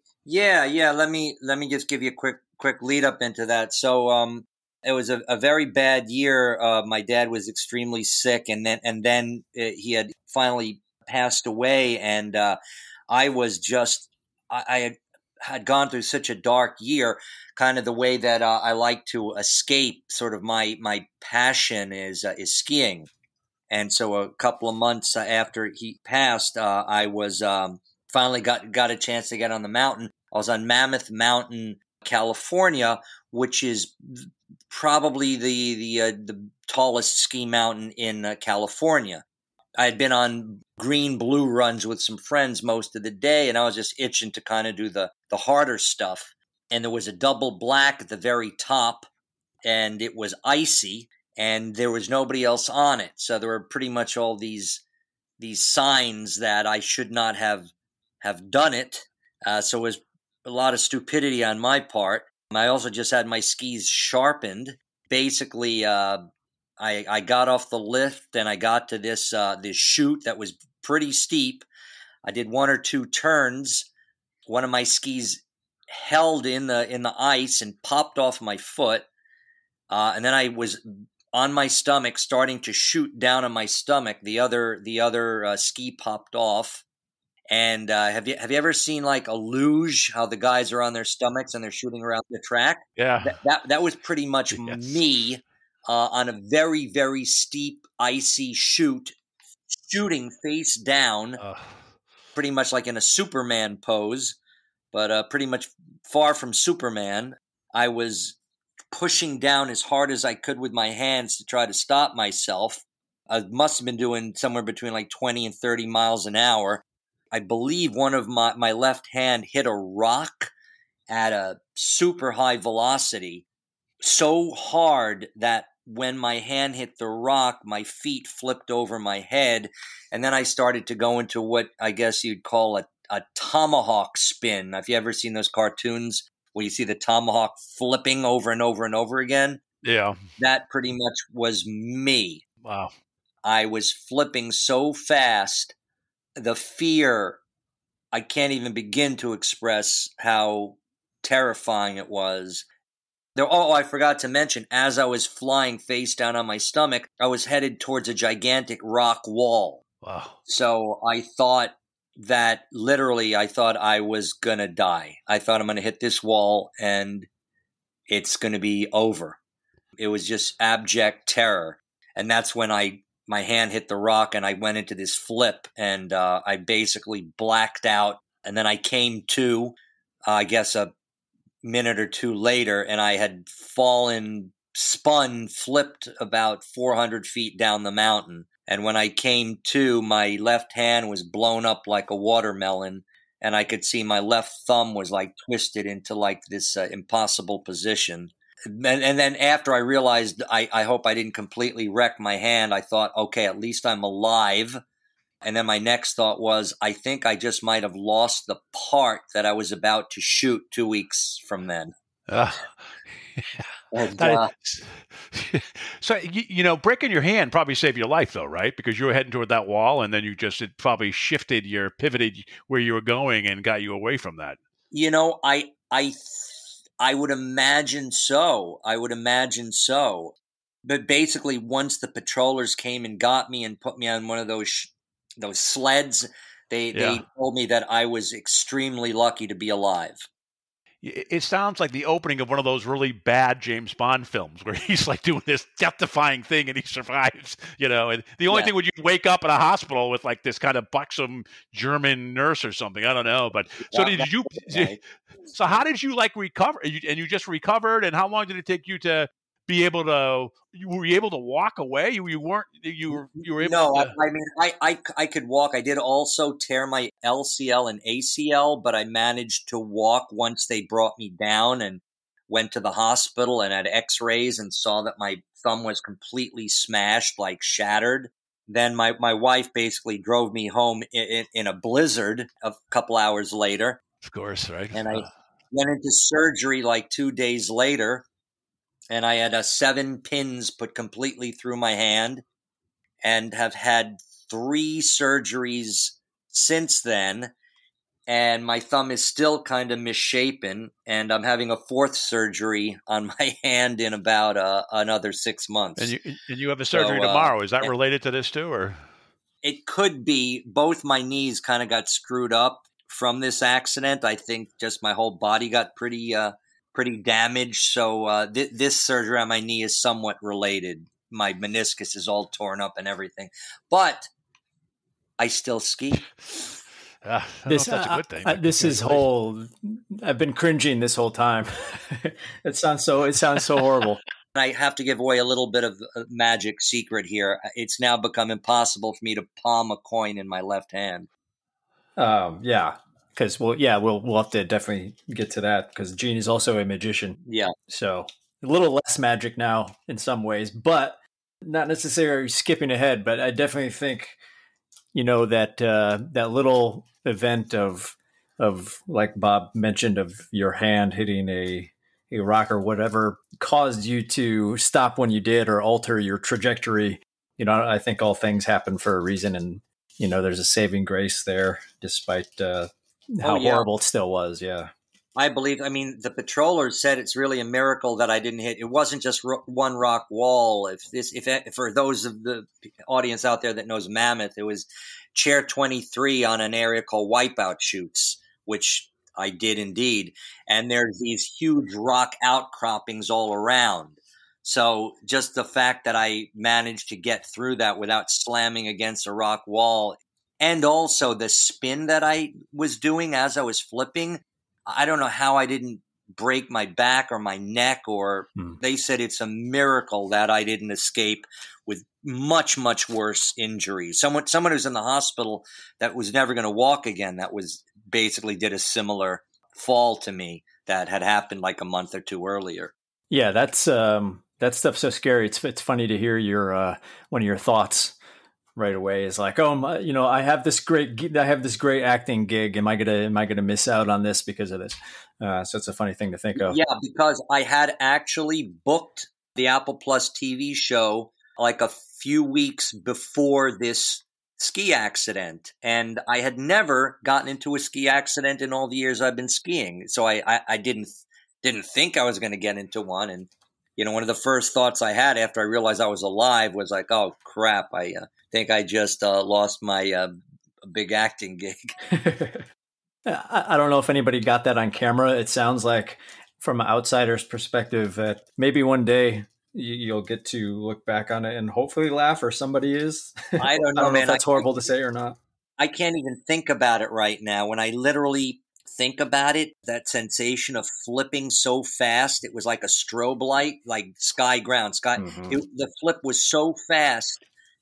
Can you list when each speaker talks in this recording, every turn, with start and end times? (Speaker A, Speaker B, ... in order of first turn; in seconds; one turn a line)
Speaker A: 0.2-12.6
Speaker A: 13.1-23.1
Speaker A: 23.7-39.2
Speaker A: 39.8-49.1
Speaker A: 49.6-54.8
Speaker A: 55.4-66.2
Speaker A: 66.8-71.7
Speaker A: 72.2-73.9
Speaker A: 74.5-79.1
Speaker A: 79.9-80.8
Speaker A: 81.3-86.8
Speaker A: 87.5-99.2
Speaker B: 93.0-93.4
Speaker B: 94.5-95.0
Speaker A: 99.7-101.4
Speaker B: 101.4-101.7
Speaker A: 102.3-104.4
Speaker A: 104.9-108.4
Speaker A: 108.9-120.5
Speaker A: 121.1-123.4
Speaker A: 124.0-139.6
Speaker B: 139.8-140.2
Speaker A: 140.4-142.4
Speaker B: 142.6-142.9
Speaker A: 143.4-145.7
Speaker A: 146.4-147.4
Speaker A: 148.1-152.7
Speaker A: 153.3-159.8
Speaker B: 160.0-160.3
Speaker A: 160.5-167.3
Speaker A: 168.1-169.4
Speaker A: 170.0-180.9
Speaker A: 181.6-204.8
Speaker A: 205.4-211.9
Speaker B: 212.3-212.7
Speaker B: 213.4-213.7
Speaker A: 213.9-214.5
Speaker B: 214.2-224.6
Speaker A: 224.9-240.3
Speaker B: 236.9-237.2
Speaker B: 241.0-254.9
Speaker A: 253.9-255.0
Speaker B: 255.5-264.1
Speaker A: 263.6-284.0
Speaker B: 284.2-285.3
Speaker A: 284.9-288.3
Speaker A: 289.1-292.4
Speaker A: 293.2-297.5
Speaker A: 298.3-306.1
Speaker B: 306.0-309.0
Speaker A: 306.9-307.9
Speaker A: 309.6-324.3
Speaker A: 325.4-326.3
Speaker B: 327.2-329.3
Speaker C: 327.7-334.2
Speaker A: 334.6-341.3
Speaker C: 342.2-354.4
Speaker A: 347.5-347.7
Speaker C: 355.1-374.9
Speaker A: 373.4-373.9
Speaker A: 375.4-422.9
Speaker C: 423.3-428.2
Speaker C: 428.8-436.8
Speaker A: 436.6-460.3
Speaker A: 460.9-461.9
Speaker C: 462.1-462.6
Speaker C: 463.3-475.4
Speaker A: 473.6-474.9
Speaker A: 475.8-487.4
Speaker C: 485.2-485.6